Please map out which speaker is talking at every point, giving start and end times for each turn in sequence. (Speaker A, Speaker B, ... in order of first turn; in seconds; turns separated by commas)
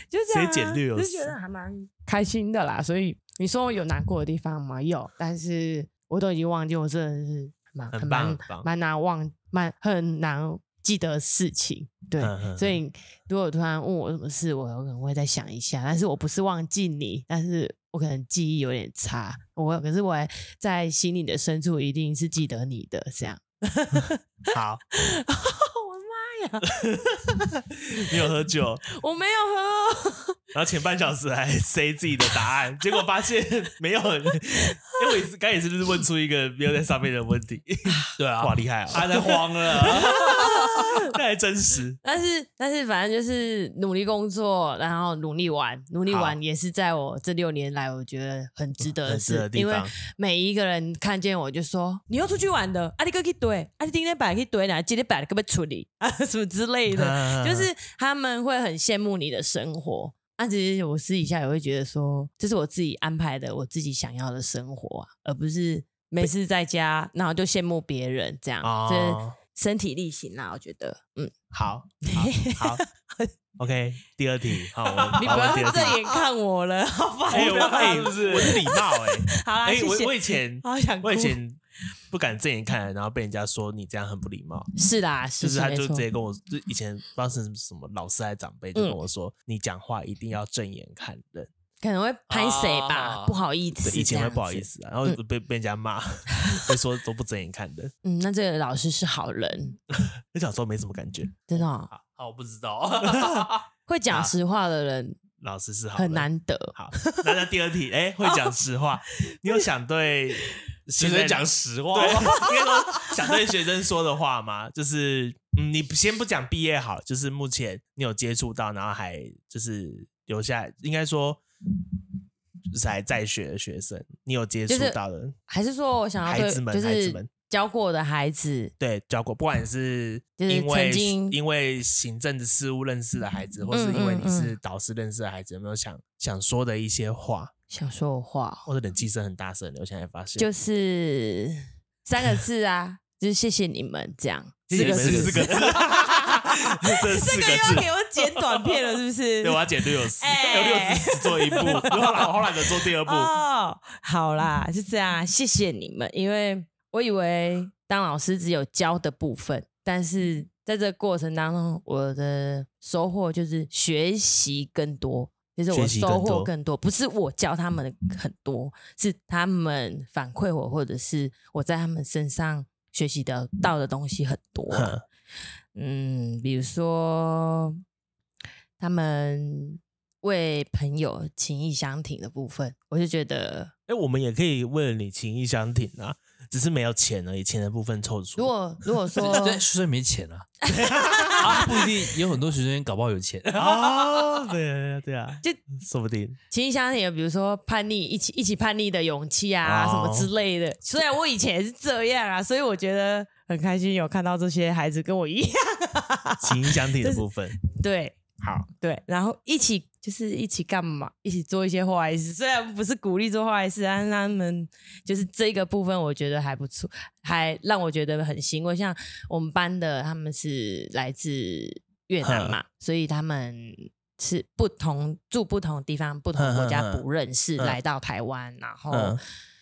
Speaker A: 0.1-24.2, Speaker B: 0.3-1.3, Speaker B: 7.9-8.7, Speaker B: 12.2-12.8, Speaker B: 23.9-24.8, Speaker A: 24.9-26.7, Speaker B: 26.7-28.8, Speaker A: 29.0-30.4, Speaker B: 30.5-42.0, Speaker C: 38.2-40.8, Speaker A: 40.0-41.0, Speaker A: 42.0-71.3, Speaker B: 46.1-46.4, Speaker B: 49.0-49.9, Speaker B: 56.9-57.7, Speaker B: 68.6-69.4, Speaker B: 71.5-72.8, Speaker A: 72.0-73.3, Speaker B: 73.6-76.0, Speaker C: 74.9-75.6, Speaker A: 75.2-81.4, Speaker C: 77.3-78.6, Speaker B: 77.3-81.6, Speaker B: 82.1-84.7, Speaker A: 84.7-86.0, Speaker B: 85.4-91.5, Speaker A: 91.8-95.2, Speaker C: 92.3-93.3, Speaker B: 93.8-97.9, Speaker A: 96.4-96.7, Speaker A: 98.0-99.8, Speaker B: 99.9-101.4, Speaker A: 101.5-101.9, Speaker C: 101.9-103.6, Speaker B: 103.1-103.5, Speaker A: 103.9-105.2, Speaker B: 104.1-104.3, Speaker B: 105.4-121.4, Speaker A: 105.9-107.2, Speaker A: 108.2-108.5, Speaker A: 109.3-109.6, Speaker C: 111.0-112.4, Speaker B: 122.7-125.3, Speaker A: 124.7-128.7, Speaker B: 126.2-127.3, Speaker B: 128.8-137.5, Speaker A: 130.4-131.4, Speaker A: 133.7-134.5, Speaker A: 137.7-138.7, Speaker B: 138.7-140.5, Speaker A: 140.4-152.3, Speaker B: 144.7-148.7, Speaker C: 144.7-145.6, Speaker B: 149.4-153.3, Speaker A: 152.8-175.0, Speaker B: 165.7-166.5, Speaker B: 174.7-175.0, Speaker A: 175.7-177.8, Speaker A: 178.8-183.7, Speaker B: 183.9-189.4, Speaker A: 188.4-189.6, Speaker C: 189.2-190.4, Speaker A: 190.6-191.8, Speaker B: 190.7-191.8, Speaker C: 191.4-194.4, Speaker B: 193.5-196.4, Speaker A: 196.5-229.2, Speaker B: 199.6-200.3, Speaker B: 206.4-207.6, Speaker B: 222.2-222.6, Speaker B: 226.4-227.0, Speaker B: 228.9-229.2